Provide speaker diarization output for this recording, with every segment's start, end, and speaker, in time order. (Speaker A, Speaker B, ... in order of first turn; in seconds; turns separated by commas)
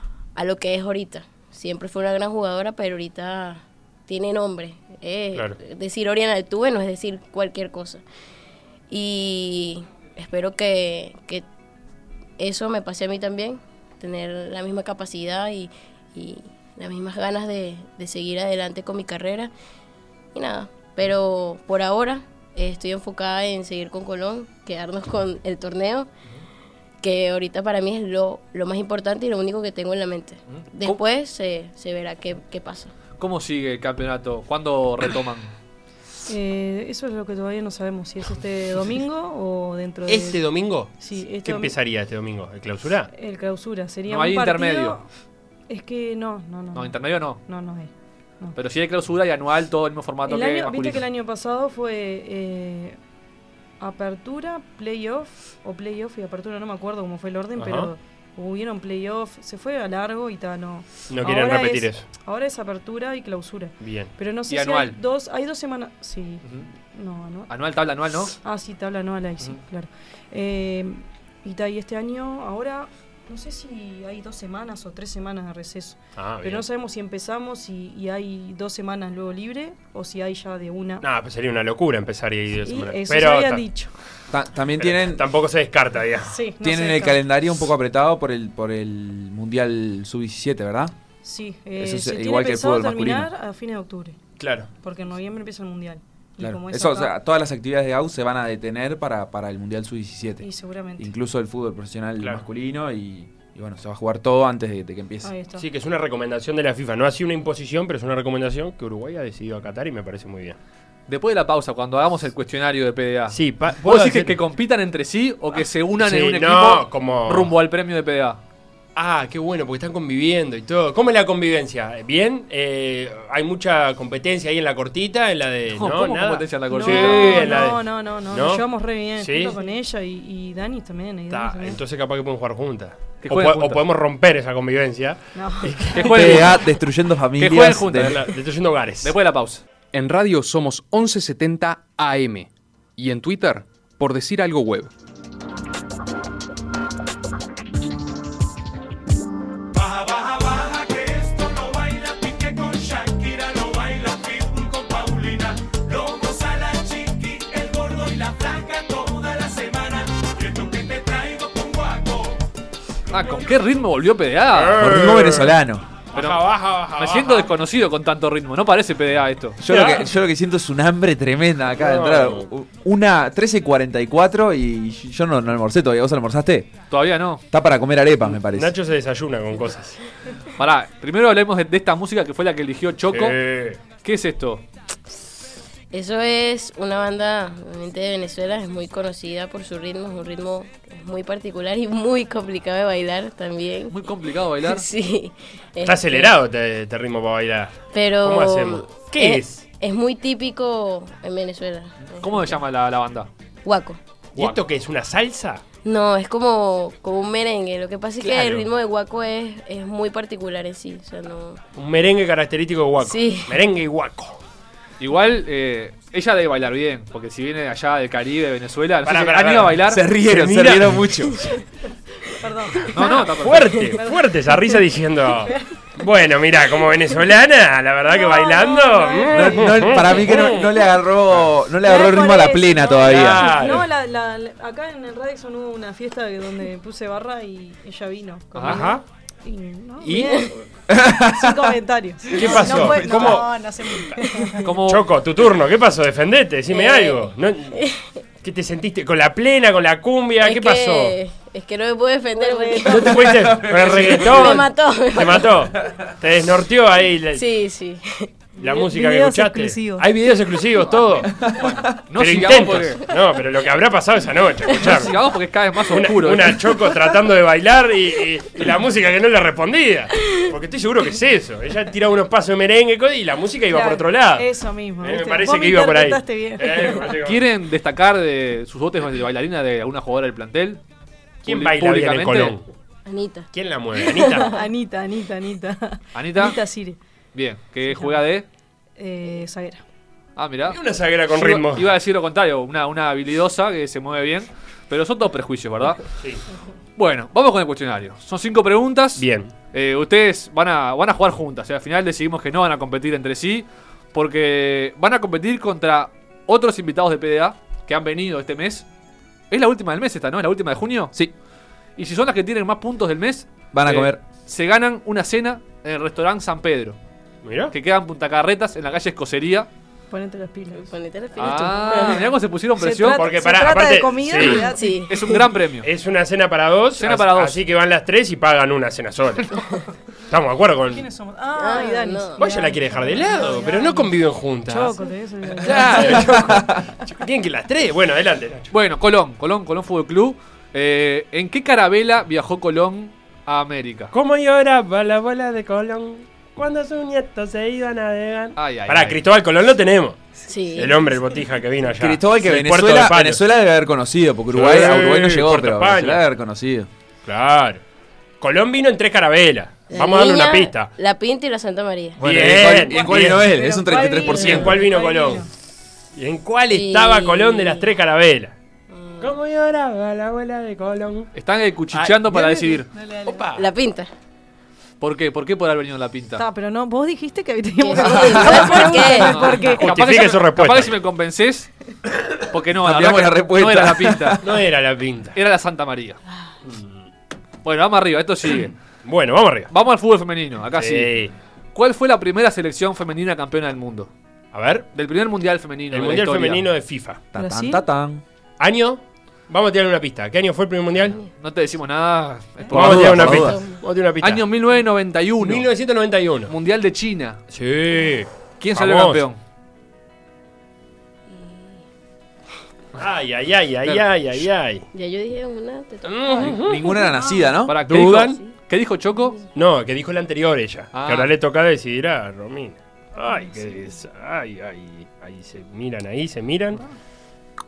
Speaker A: 0.4-8.0, Speaker A: 8.9-11.5, Speaker A: 12.4-19.5, Speaker A: 20.3-26.1, Speaker A: 27.0-32.9, Speaker B: 30.5-31.0, Speaker B: 33.2-35.5, Speaker C: 36.3-40.4, Speaker D: 40.1-43.1, Speaker C: 41.0-41.8, Speaker C: 43.1-45.1, Speaker B: 44.1-45.0, Speaker C: 45.7-48.6, Speaker B: 46.7-47.4, Speaker B: 48.6-51.0, Speaker C: 50.3-53.0, Speaker C: 53.8-67.5, Speaker D: 57.6-57.9, Speaker D: 61.1-62.0, Speaker D: 63.8-64.1, Speaker B: 64.5-65.0, Speaker B: 67.5-68.3, Speaker C: 68.4-81.1, Speaker D: 76.2-76.7, Speaker D: 81.0-83.6, Speaker C: 82.6-83.9, Speaker E: 84.3-85.2, Speaker D: 84.8-86.3, Speaker C: 86.2-87.2, Speaker E: 86.6-90.9, Speaker C: 91.2-94.2, Speaker E: 91.8-93.3, Speaker D: 94.4-94.7, Speaker C: 94.8-97.2, Speaker E: 96.4-100.5, Speaker C: 100.4-101.1, Speaker E: 101.0-105.3, Speaker C: 105.2-105.7, Speaker D: 105.6-110.6, Speaker B: 111.1-118.4, Speaker D: 113.3-114.4, Speaker D: 116.0-117.5, Speaker D: 119.0-128.7, Speaker B: 125.7-127.7, Speaker C: 126.7-131.8, Speaker D: 129.2-129.6, Speaker D: 131.3-136.6, Speaker B: 133.2-133.8, Speaker C: 135.3-135.9, Speaker B: 135.9-136.7, Speaker E: 136.0-138.2, Speaker B: 137.4-138.3, Speaker D: 138.0-139.2, Speaker B: 139.0-139.6, Speaker F: 139.9-144.9, Speaker F: 149.7-162.4, Speaker B: 163.1-165.0, Speaker F: 163.1-163.5, Speaker D: 164.5-165.6, Speaker E: 164.8-165.8, Speaker D: 166.1-167.5, Speaker B: 166.1-169.6, Speaker E: 169.6-176.8, Speaker D: 169.7-170.1, Speaker D: 171.8-172.5, Speaker B: 176.9-177.4, Speaker E: 177.5-178.7, Speaker D: 178.3-180.0, Speaker B: 180.6-183.4, Speaker D: 183.1-183.8, Speaker B: 184.0-184.6, Speaker A: 185.9-194.0, Speaker B: 193.9-194.9, Speaker A: 194.6-196.3, Speaker D: 195.8-199.7, Speaker A: 197.9-202.6, Speaker B: 202.1-203.3, Speaker A: 203.7-204.0, Speaker D: 204.3-205.6, Speaker A: 205.8-211.6, Speaker D: 208.2-208.7, Speaker D: 211.8-214.4, Speaker A: 213.0-213.6, Speaker B: 215.0-220.1, Speaker D: 219.0-221.6, Speaker E: 219.9-221.6, Speaker C: 222.4-222.9, Speaker A: 222.7-224.0, Speaker B: 222.9-223.8, Speaker D: 222.9-230.9, Speaker C: 224.0-224.8, Speaker C: 225.4-225.7, Speaker C: 228.1-230.5, Speaker E: 229.3-233.7, Speaker C: 231.8-244.7, Speaker D: 233.1-233.9, Speaker B: 238.6-238.9, Speaker D: 238.6-239.0, Speaker D: 240.0-240.5, Speaker A: 240.1-240.5, Speaker E: 240.9-241.8, Speaker D: 242.3-244.2, Speaker A: 244.3-244.6, Speaker B: 244.6-245.1, Speaker D: 244.8-247.8, Speaker A: 246.7-248.2, Speaker D: 248.4-251.2, Speaker A: 250.4-255.7, Speaker C: 252.4-253.5, Speaker D: 252.8-257.4, Speaker E: 253.4-254.5, Speaker A: 257.3-258.4, Speaker D: 258.6-265.2, Speaker C: 258.6-260.1, Speaker B: 261.0-263.1, Speaker E: 261.5-261.9, Speaker B: 264.7-266.7, Speaker D: 265.9-274.5, Speaker C: 273.7-277.2, Speaker D: 275.0-277.4, Speaker B: 277.2-280.8, Speaker B: 281.4-282.6, Speaker D: 281.4-282.7, Speaker A: 283.1-284.7, Speaker D: 283.5-284.5, Speaker C: 284.2-287.0, Speaker B: 286.1-286.6, Speaker B: 287.3-288.5, Speaker C: 287.9-288.2, Speaker C: 289.0-289.8, Speaker B: 290.4-296.0, Speaker D: 290.7-291.9, Speaker B: 297.0-308.9, Speaker D: 299.2-299.5, Speaker B: 309.5-311.1, Speaker B: 312.0-317.0, Speaker E: 313.7-314.2, Speaker D: 317.4-317.7, Speaker B: 317.7-319.7, Speaker C: 320.1-320.9, Speaker A: 320.8-322.3, Speaker B: 321.4-323.2, Speaker C: 322.8-325.5, Speaker D: 323.1-324.7, Speaker A: 324.4-325.4, Speaker B: 325.1-325.9, Speaker D: 325.8-329.7, Speaker B: 327.0-327.6, Speaker D: 330.3-331.1, Speaker C: 330.9-336.8, Speaker A: 331.6-332.4, Speaker D: 332.4-335.0, Speaker D: 335.6-338.7, Speaker B: 338.7-344.1, Speaker D: 344.1-353.4, Speaker B: 348.6-349.2, Speaker A: 350.5-351.0, Speaker E: 351.9-356.9, Speaker D: 354.5-356.2, Speaker D: 357.2-357.8, Speaker D: 358.4-360.9, Speaker A: 359.9-362.2, Speaker D: 362.2-363.5, Speaker E: 362.2-364.8, Speaker C: 363.1-365.5, Speaker D: 364.2-365.5, Speaker A: 364.4-364.7, Speaker D: 366.1-368.5, Speaker A: 366.7-367.9, Speaker A: 368.9-369.4, Speaker D: 369.2-371.3, Speaker B: 371.4-372.9, Speaker D: 371.9-373.7, Speaker C: 372.9-373.5, Speaker A: 373.6-374.1, Speaker B: 375.0-376.4, Speaker C: 376.4-379.9, Speaker A: 377.8-379.6, Speaker E: 378.1-378.5, Speaker B: 379.0-381.7, Speaker D: 379.7-381.0, Speaker B: 382.4-384.4, Speaker E: 382.8-384.6, Speaker D: 384.4-385.4, Speaker B: 385.4-386.2, Speaker D: 386.6-386.9, Speaker B: 387.6-388.7, Speaker D: 389.0-389.7, Speaker B: 389.7-391.1, Speaker D: 390.8-391.3, Speaker B: 391.7-394.1, Speaker D: 394.5-394.9, Speaker B: 394.9-396.7, Speaker D: 395.9-397.2, Speaker E: 397.3-398.2, Speaker C: 397.4-397.9, Speaker D: 398.6-401.2, Speaker B: 401.4-403.5, Speaker D: 402.7-404.5, Speaker E: 402.7-403.6, Speaker A: 403.3-403.8, Speaker B: 404.2-405.7, Speaker D: 405.4-406.5, Speaker B: 406.5-407.4, Speaker D: 407.5-409.2, Speaker B: 408.6-409.4, Speaker A: 411.3-411.8, Speaker D: 412.9-414.9, Speaker A: 414.9-416.6, Speaker D: 416.1-416.9, Speaker E: 416.6-417.8, Speaker C: 416.8-417.6, Speaker B: 417.7-419.4, Speaker D: 417.9-418.4, Speaker D: 419.6-426.8, Speaker B: 420.9-421.3, Speaker C: 423.2-424.0